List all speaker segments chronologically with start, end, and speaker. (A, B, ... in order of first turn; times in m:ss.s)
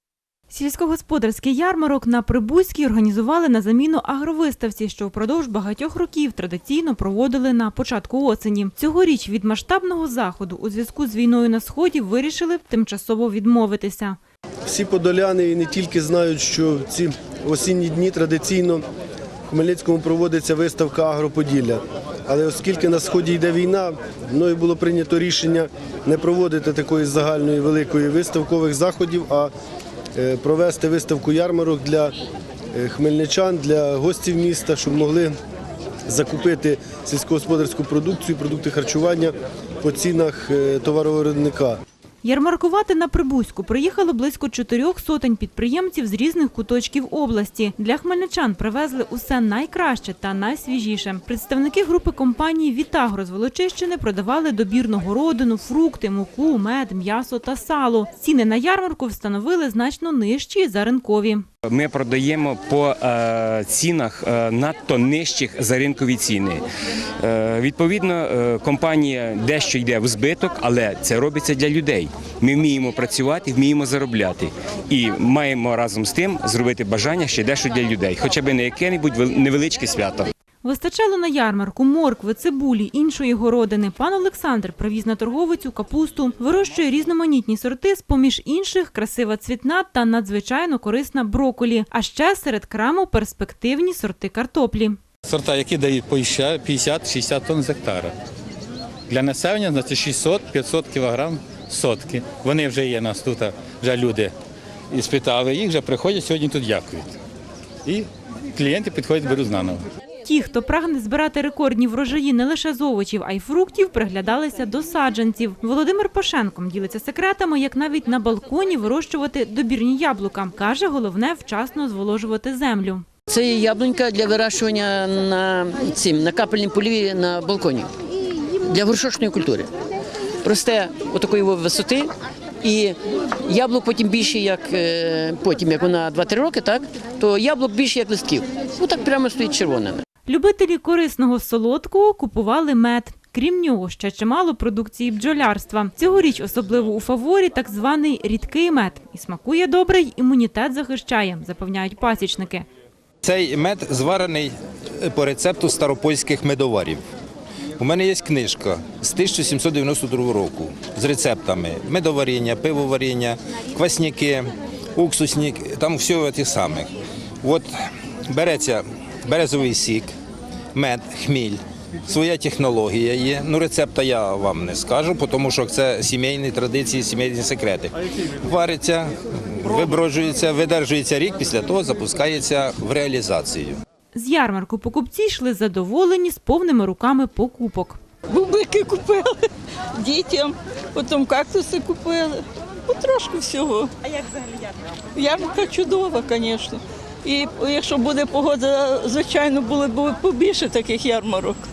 0:00.5-0:14.2 A
0:14.6-0:18.8 B
0:19.5-0:29.5 B
0:30.1-0:32.1 B
0:32.7-0:35.3 B
0:36.1-0:41.8 B
0:42.2-1:01.4 A
1:01.6-1:06.6 C
1:07.2-1:20.3 C
1:20.6-1:35.0 A
1:35.3-1:38.1 D
1:39.1-1:44.3 D
1:44.9-1:47.1 D
1:47.8-1:49.8 D
1:50.2-2:03.0 A
2:03.3-2:07.9 E
2:08.6-2:09.7 E
2:10.4-2:20.0 E
2:20.3-2:32.6 A
2:33.2-2:37.0 F
2:37.8-2:46.9 F
2:47.4-2:47.7 F
2:48.3-2:50.1 F
2:50.7-3:03.8 F
3:04.1-3:08.0 A
3:08.3-3:09.4 G
3:10.0-3:13.9 G
3:15.1-3:21.6 G